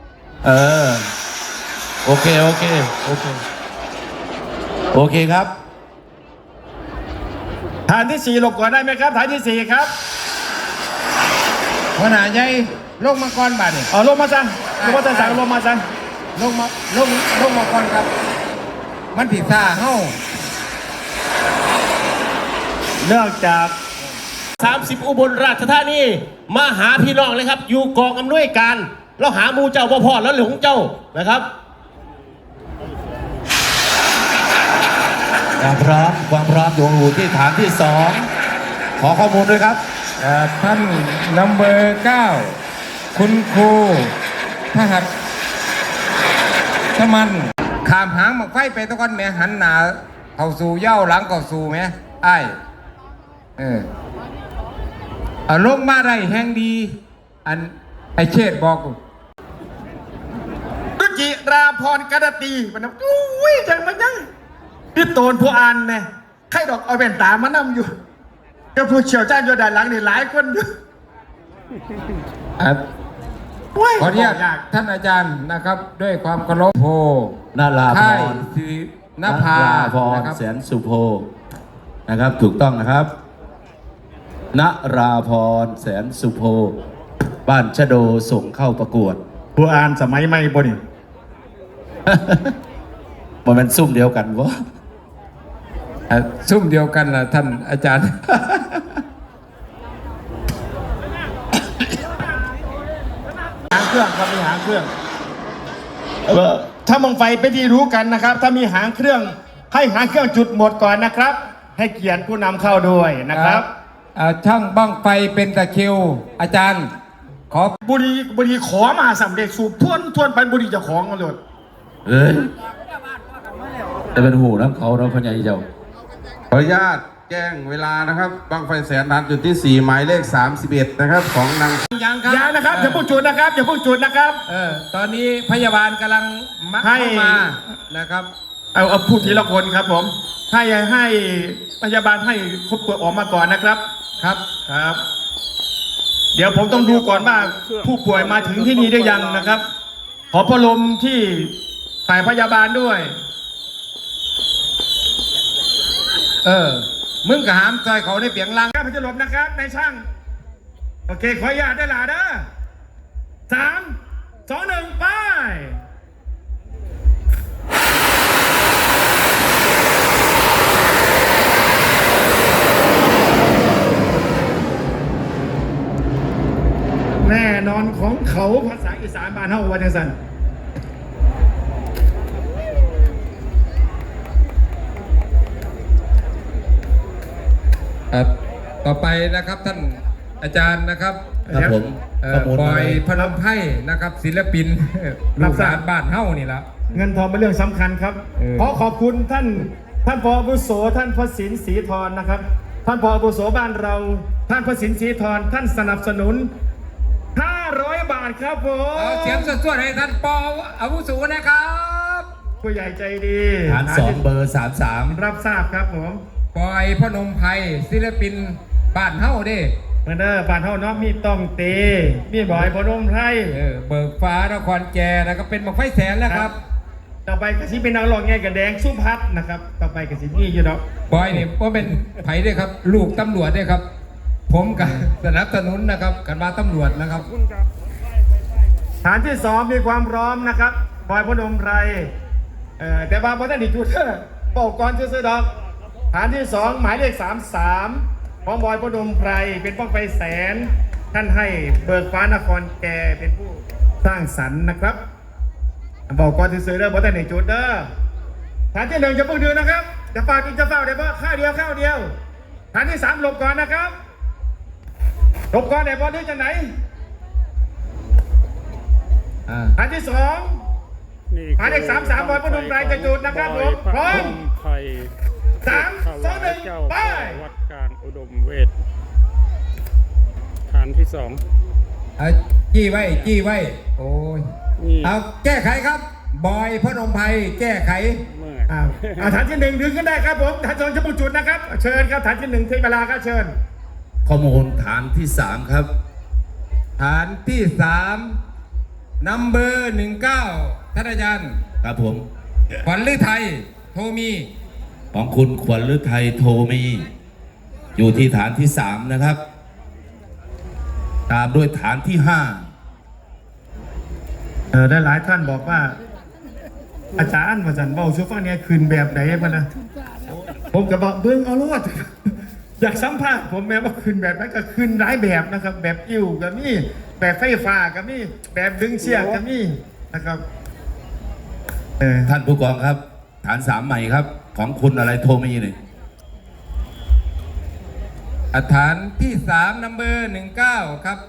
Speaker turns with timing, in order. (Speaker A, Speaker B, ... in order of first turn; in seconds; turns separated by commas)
Speaker A: 0.4-1.1, Speaker A: 2.0-3.4, Speaker A: 4.9-5.5, Speaker B: 7.9-9.9, Speaker C: 12.0-13.9, Speaker B: 13.9-15.8, Speaker C: 14.8-15.4, Speaker C: 16.4-18.1, Speaker C: 19.1-20.2, Speaker B: 23.0-23.8, Speaker D: 24.6-31.5, Speaker A: 35.6-38.3, Speaker A: 39.0-39.8, Speaker C: 40.2-42.6, Speaker C: 43.1-44.1, Speaker C: 44.7-45.1, Speaker C: 47.0-52.6, Speaker C: 53.6-53.9, Speaker C: 55.5-59.0, Speaker B: 61.0-64.3, Speaker B: 65.0-67.9, Speaker B: 68.8-70.7, Speaker B: 73.8-74.7, Speaker C: 74.0-80.4, Speaker A: 77.5-78.5, Speaker A: 79.2-81.3, Speaker A: 82.1-83.1, Speaker A: 84.5-86.8, Speaker A: 87.5-89.2, Speaker B: 89.6-90.8, Speaker A: 92.1-92.5, Speaker A: 93.5-94.6, Speaker C: 96.1-98.1, Speaker B: 103.7-104.9, Speaker B: 106.3-113.7, Speaker C: 114.2-116.9, Speaker C: 117.5-117.8, Speaker B: 117.8-121.4, Speaker A: 122.1-122.5, Speaker A: 124.2-125.7, Speaker E: 126.5-131.8, Speaker C: 131.9-133.0, Speaker B: 132.3-134.4, Speaker C: 134.5-138.3, Speaker B: 136.8-137.5, Speaker B: 138.7-143.8, Speaker B: 144.7-145.0, Speaker B: 146.3-149.7, Speaker F: 146.7-149.5, Speaker B: 150.3-151.6, Speaker B: 152.1-153.1, Speaker C: 156.4-158.7, Speaker B: 158.7-160.0, Speaker B: 161.1-162.5, Speaker B: 163.5-164.0, Speaker B: 164.5-165.8, Speaker B: 177.2-180.2, Speaker C: 188.1-191.2, Speaker B: 191.5-191.8, Speaker A: 191.5-193.1, Speaker C: 192.2-196.9, Speaker B: 195.4-195.8, Speaker B: 196.9-206.5, Speaker C: 198.4-198.7, Speaker B: 207.3-209.6, Speaker C: 208.9-212.3, Speaker B: 212.6-214.2, Speaker A: 213.7-215.2, Speaker B: 215.1-216.2, Speaker C: 216.5-219.8, Speaker B: 220.1-223.6, Speaker C: 223.5-226.6, Speaker B: 227.3-230.8, Speaker C: 231.1-233.8, Speaker C: 234.5-237.3, Speaker B: 239.0-242.1, Speaker B: 242.8-245.5, Speaker B: 246.1-255.0, Speaker B: 256.1-257.9, Speaker B: 258.7-262.1, Speaker B: 262.7-263.9, Speaker B: 265.5-266.7, Speaker C: 269.5-269.8, Speaker B: 269.8-270.6, Speaker F: 271.3-275.1, Speaker B: 271.6-274.4, Speaker B: 275.6-277.4, Speaker F: 275.7-278.7, Speaker F: 280.7-281.4, Speaker C: 282.2-284.5, Speaker F: 284.8-285.1, Speaker C: 285.0-288.2, Speaker F: 288.4-288.7, Speaker B: 288.7-293.6, Speaker A: 294.2-295.9, Speaker C: 297.0-298.4, Speaker C: 299.2-301.6, Speaker A: 301.8-302.3, Speaker C: 302.8-304.5, Speaker A: 305.1-307.1, Speaker A: 308.0-309.4, Speaker A: 311.3-312.7, Speaker B: 314.7-315.9, Speaker B: 317.2-319.7, Speaker B: 320.7-330.4, Speaker A: 332.2-335.8, Speaker C: 338.5-341.2